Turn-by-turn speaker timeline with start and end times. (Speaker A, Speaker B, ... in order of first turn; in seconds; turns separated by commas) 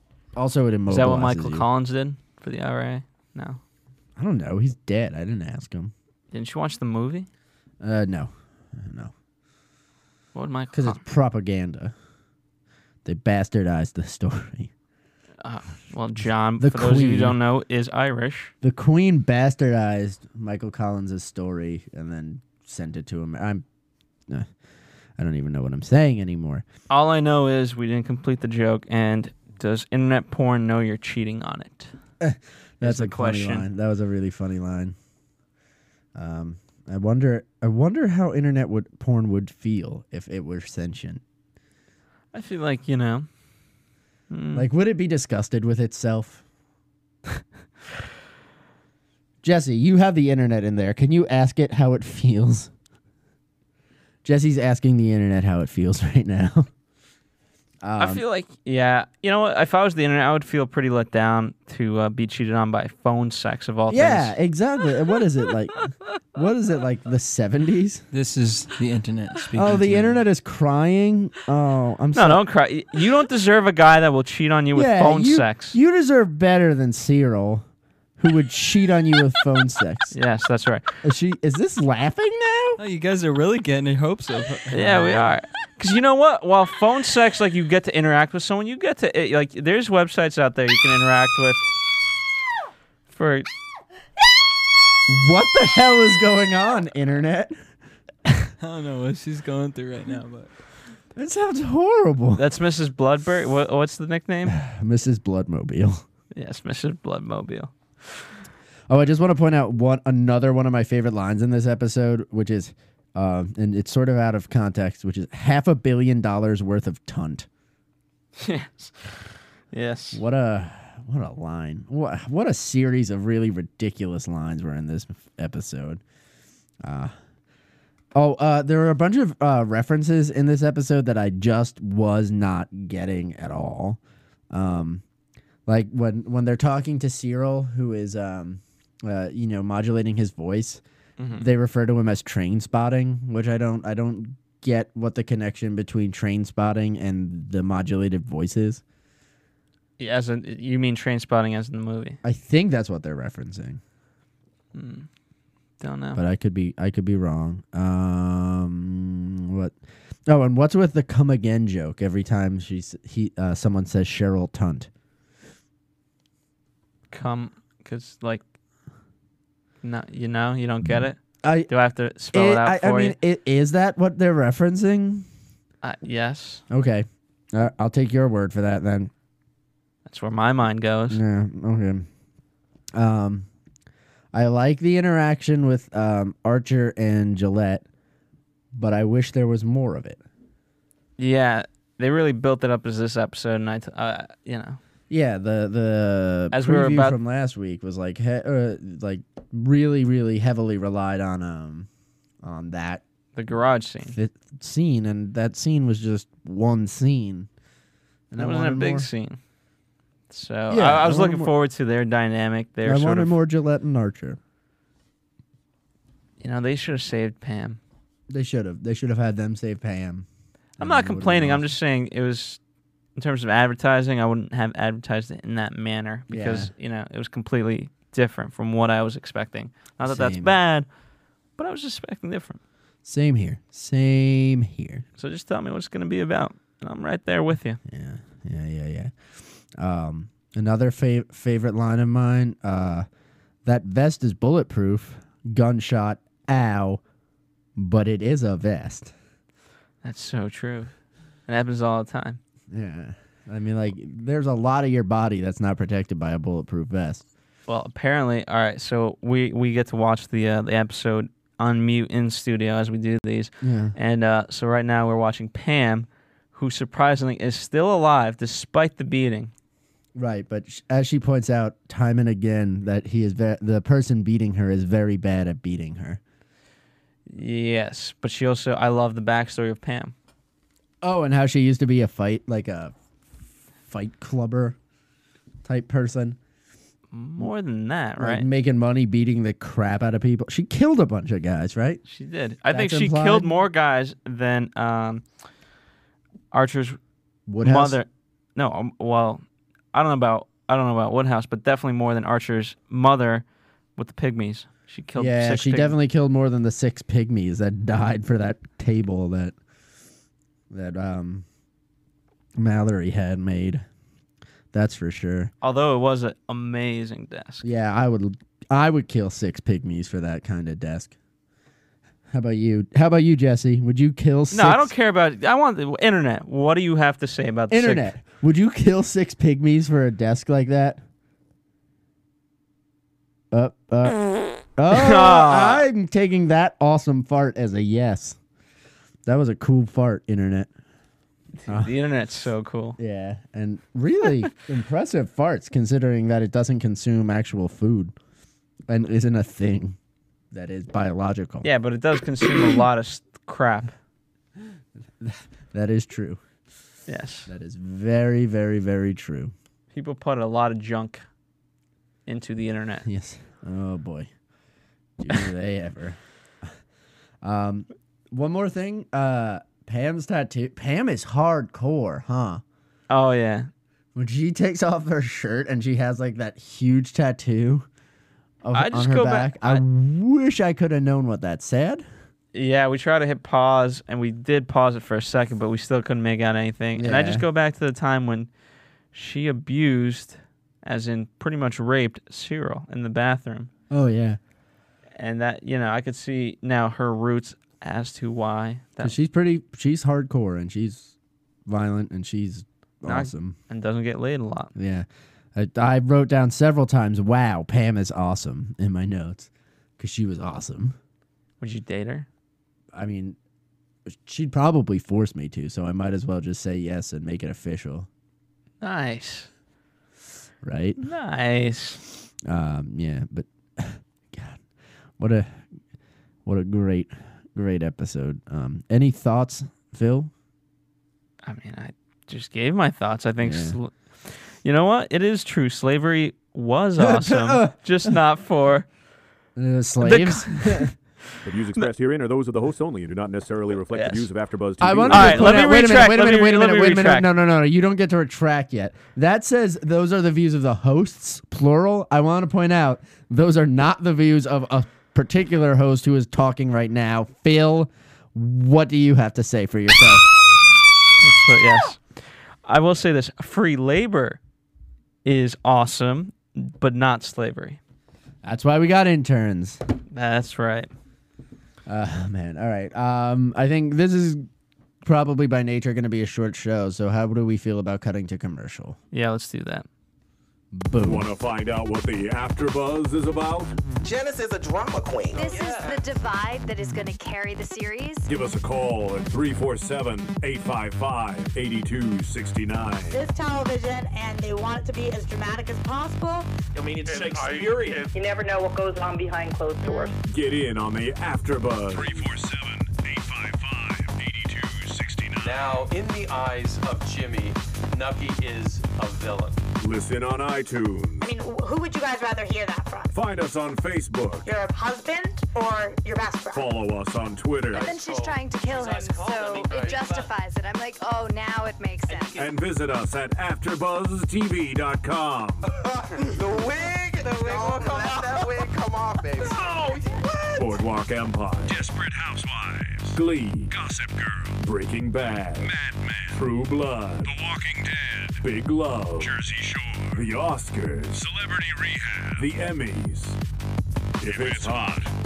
Speaker A: 0.4-1.7, Speaker B: 0.9-3.6, Speaker A: 4.2-5.9, Speaker B: 6.3-7.3, Speaker A: 7.8-9.1, Speaker B: 10.3-11.0, Speaker A: 10.7-11.9, Speaker A: 13.1-14.7, Speaker B: 15.4-18.5, Speaker A: 16.6-17.4, Speaker A: 18.6-23.6, Speaker A: 25.2-26.6, Speaker B: 26.9-31.9, Speaker A: 32.2-35.0, Speaker B: 32.8-33.7, Speaker A: 36.1-41.2, Speaker B: 42.3-43.3, Speaker B: 44.3-44.7, Speaker A: 44.5-46.4, Speaker A: 49.4-52.7, Speaker A: 54.2-56.7, Speaker A: 57.8-58.2, Speaker B: 58.0-64.3, Speaker A: 63.9-68.0, Speaker C: 68.1-70.2, Speaker A: 69.5-72.4, Speaker B: 72.1-75.8, Speaker A: 74.7-77.7, Speaker A: 78.2-80.1, Speaker B: 80.1-80.9, Speaker A: 81.0-82.8, Speaker C: 82.8-85.3, Speaker B: 84.7-91.6, Speaker B: 93.1-93.5, Speaker A: 95.1-97.5, Speaker C: 98.6-100.5, Speaker A: 101.2-102.4, Speaker B: 102.4-104.6, Speaker A: 104.5-106.0, Speaker B: 106.3-107.7, Speaker A: 108.9-117.5, Speaker B: 118.4-120.2, Speaker A: 120.1-126.0, Speaker A: 126.8-127.1, Speaker A: 128.1-134.0, Speaker A: 134.5-135.0, Speaker A: 135.7-140.8, Speaker B: 141.2-141.5, Speaker A: 141.3-148.8, Speaker B: 150.0-152.2, Speaker A: 152.2-153.8, Speaker B: 154.7-155.1, Speaker B: 155.8-156.2, Speaker A: 156.2-159.8, Speaker A: 160.3-164.9, Speaker B: 167.1-168.4, Speaker B: 169.8-173.2, Speaker A: 171.4-171.7, Speaker A: 172.3-175.3, Speaker B: 175.8-176.6, Speaker A: 176.7-179.1, Speaker B: 180.1-181.2, Speaker A: 181.1-182.1, Speaker A: 182.9-183.5, Speaker A: 184.3-187.8, Speaker A: 188.7-190.2, Speaker B: 191.2-194.8, Speaker A: 195.1-201.9, Speaker B: 196.5-197.2, Speaker A: 202.4-203.0, Speaker B: 203.3-204.2, Speaker A: 204.1-207.5, Speaker A: 208.3-209.1, Speaker B: 208.4-209.4, Speaker B: 210.3-213.4, Speaker A: 210.7-211.5, Speaker A: 212.8-214.4, Speaker B: 216.4-217.8, Speaker A: 218.3-220.3, Speaker A: 220.8-221.7, Speaker B: 220.8-222.6, Speaker B: 223.2-230.9, Speaker A: 226.3-226.7, Speaker A: 230.0-230.6, Speaker B: 231.6-232.6, Speaker A: 233.0-235.1, Speaker B: 235.2-237.8, Speaker A: 237.9-239.1, Speaker A: 239.7-243.1, Speaker A: 243.7-247.0, Speaker A: 247.8-249.1, Speaker B: 250.0-250.9, Speaker B: 251.5-252.4, Speaker A: 252.7-257.2, Speaker B: 257.7-269.5, Speaker A: 263.6-263.9, Speaker A: 270.1-276.2, Speaker B: 277.3-280.1, Speaker A: 281.0-282.9, Speaker A: 283.9-284.8, Speaker A: 285.6-286.4, Speaker B: 287.1-288.5, Speaker A: 288.2-292.0, Speaker B: 292.1-295.2, Speaker A: 292.7-293.5, Speaker B: 296.5-297.0, Speaker A: 297.5-298.0, Speaker B: 297.6-303.4, Speaker B: 304.0-305.9, Speaker A: 305.2-309.6, Speaker A: 310.7-311.4, Speaker A: 312.6-313.9, Speaker A: 314.7-315.5, Speaker B: 315.6-317.6, Speaker A: 317.6-321.1, Speaker A: 322.3-324.9, Speaker B: 324.5-328.1, Speaker A: 327.7-331.0, Speaker A: 333.5-338.4, Speaker B: 334.9-335.9, Speaker A: 339.3-340.7, Speaker B: 341.6-343.0, Speaker A: 343.0-348.1, Speaker A: 348.9-350.0, Speaker A: 350.5-351.7, Speaker B: 351.6-353.9, Speaker A: 355.2-356.4, Speaker B: 357.1-357.5, Speaker A: 357.5-359.5, Speaker B: 359.9-361.2, Speaker B: 362.3-363.1, Speaker A: 363.1-364.3, Speaker A: 365.2-366.2, Speaker A: 367.4-372.6, Speaker B: 373.1-373.7, Speaker A: 374.1-377.9, Speaker A: 378.6-382.1, Speaker B: 378.7-379.8, Speaker B: 382.5-388.5, Speaker A: 387.0-387.4, Speaker B: 389.1-393.7, Speaker A: 393.9-394.4, Speaker B: 395.2-399.1, Speaker A: 399.0-401.1, Speaker A: 401.7-403.6, Speaker B: 403.1-404.7, Speaker A: 404.8-411.0, Speaker B: 411.6-412.3, Speaker A: 412.9-413.4, Speaker A: 414.1-418.1, Speaker B: 418.8-419.5, Speaker A: 420.6-421.0, Speaker B: 421.0-422.0, Speaker A: 422.4-424.6, Speaker A: 425.2-425.6, Speaker A: 426.4-430.3, Speaker B: 431.4-438.9, Speaker A: 433.4-433.8, Speaker A: 437.0-438.1, Speaker A: 439.6-440.9, Speaker B: 440.0-440.9, Speaker D: 441.4-445.6, Speaker B: 443.9-444.2, Speaker A: 444.8-460.3, Speaker B: 445.1-447.3, Speaker B: 461.2-464.4, Speaker B: 465.2-467.8, Speaker A: 468.4-469.8, Speaker B: 470.1-470.9, Speaker A: 471.9-474.4, Speaker A: 475.0-479.0, Speaker B: 479.1-479.9, Speaker A: 480.7-481.3, Speaker E: 481.0-483.8, Speaker F: 484.0-486.1, Speaker G: 485.3-488.3, Speaker H: 485.4-485.9, Speaker E: 488.3-493.2, Speaker H: 493.1-496.5, Speaker F: 496.8-498.0, Speaker E: 497.1-498.1, Speaker I: 498.1-500.1, Speaker E: 500.3-502.3, Speaker J: 501.9-505.7, Speaker F: 505.4-509.6, Speaker E: 509.8-511.2, Speaker H: 511.2-513.1, Speaker E: 513.1-514.5, Speaker H: 514.4-516.8, Speaker E: 516.5-517.9, Speaker F: 517.7-520.3, Speaker G: 517.7-522.4, Speaker F: 522.1-522.5, Speaker E: 522.4-525.7, Speaker F: 525.7-530.8, Speaker E: 530.6-531.8, Speaker J: 531.6-533.2, Speaker E: 533.1-533.7, Speaker J: 533.7-534.6, Speaker E: 534.6-535.7, Speaker J: 535.6-536.4, Speaker E: 536.3-537.3, Speaker J: 537.2-538.5, Speaker E: 538.4-539.4, Speaker J: 539.2-540.3, Speaker E: 540.1-541.3, Speaker J: 541.2-542.5, Speaker E: 542.4-543.4, Speaker E: 544.2-545.1, Speaker J: 544.2-545.0